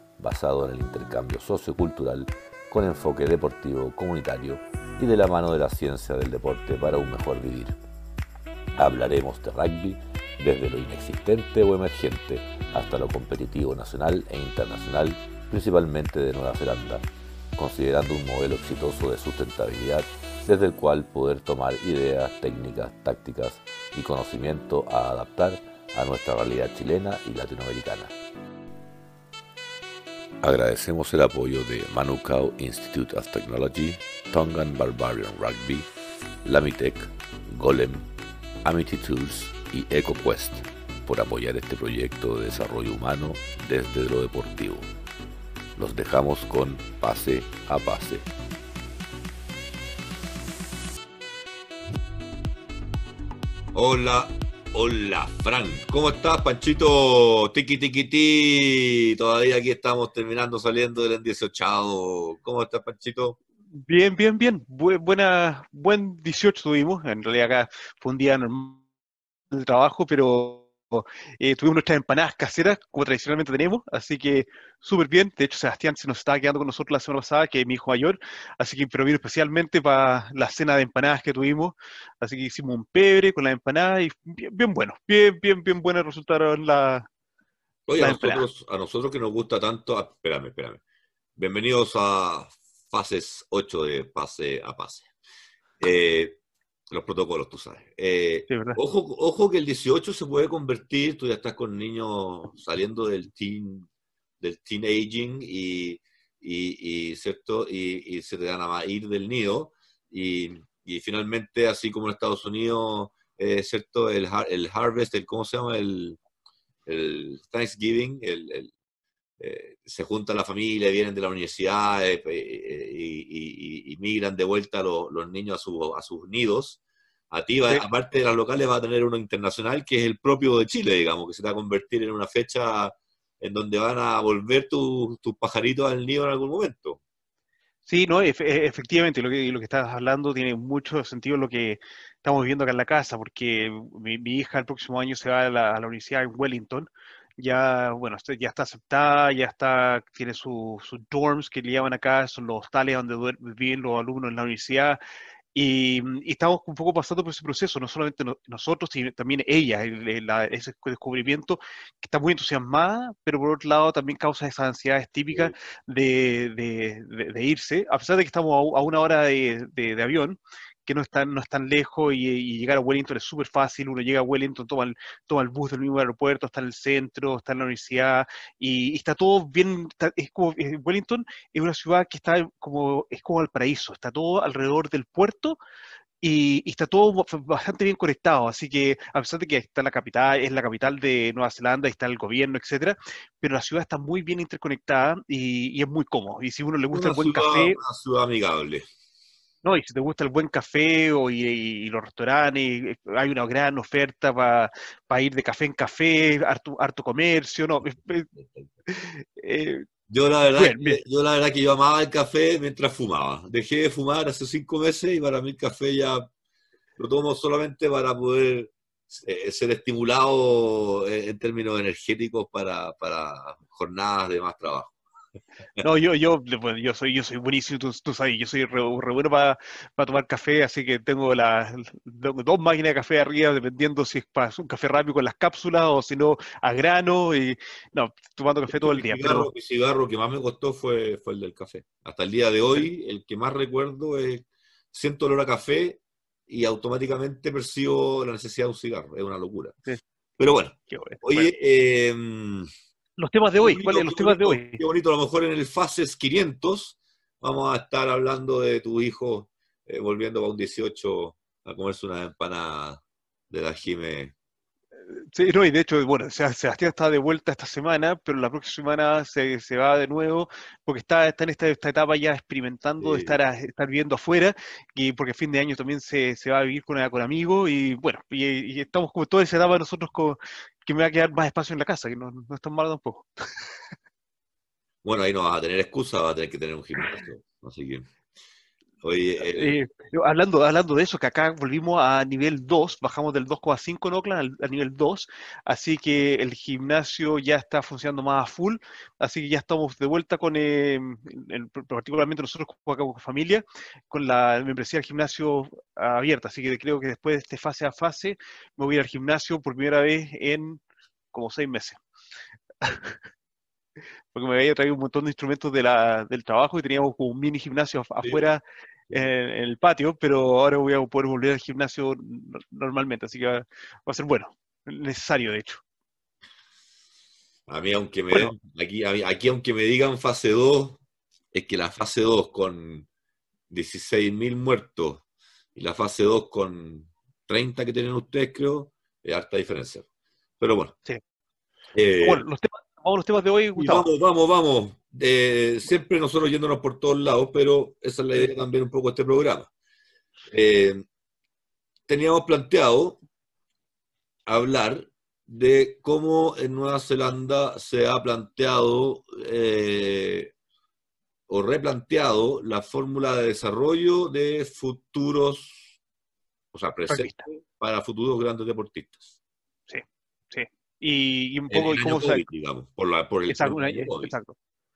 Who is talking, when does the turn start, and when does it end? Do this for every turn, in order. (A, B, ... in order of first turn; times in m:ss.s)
0:00.2-0:07.8 A
0:08.8-0:28.1 A
0:30.4-0:35.9 A
0:36.4-0:38.1 A
0:38.6-0:44.9 A
0:45.8-0:48.3 A
0:53.7-1:03.4 B
1:03.7-1:08.8 C
1:09.5-1:27.1 C
1:27.9-1:30.8 B
1:28.0-1:28.4 C
1:31.4-1:35.1 B
1:35.8-1:36.4 B
1:36.9-1:43.9 B
1:38.5-1:38.8 C
1:44.4-1:56.2 B
1:56.8-1:58.7 B
1:59.4-2:06.8 B
2:07.3-2:17.0 B
2:17.8-2:35.0 C
2:35.5-3:05.6 C
3:06.2-3:17.8 C
3:16.9-3:18.9 B
3:19.6-3:28.3 C
3:28.4-3:28.7 B
3:28.9-3:29.8 C
3:30.1-3:36.3 B
3:30.6-3:31.0 C
3:37.0-3:44.9 B
3:45.8-3:59.5 C
3:58.7-4:09.8 B
4:10.4-4:12.7 B
4:10.9-4:11.5 C
4:13.2-4:14.8 C
4:13.6-4:24.3 B
4:25.3-4:43.7 C
4:33.0-4:33.4 B
4:45.0-4:48.1 B
4:49.0-4:49.8 B
4:49.4-5:10.8 C
5:11.3-5:12.0 C
5:12.8-5:13.2 C
5:14.3-5:25.8 C
5:27.7-5:31.0 B
5:31.5-5:33.1 B
5:33.7-5:35.2 B
5:35.8-5:40.1 B
5:40.6-5:40.9 B
5:41.9-5:42.4 B
5:42.2-5:44.1 C
5:43.8-5:49.7 B
5:50.5-5:51.0 B
5:52.1-5:53.2 B
5:54.4-6:00.5 B
6:01.5-6:05.9 B
6:06.7-6:09.3 B
6:07.1-6:07.5 C
6:09.9-6:12.4 C
6:11.7-6:14.3 B
6:13.5-6:14.6 C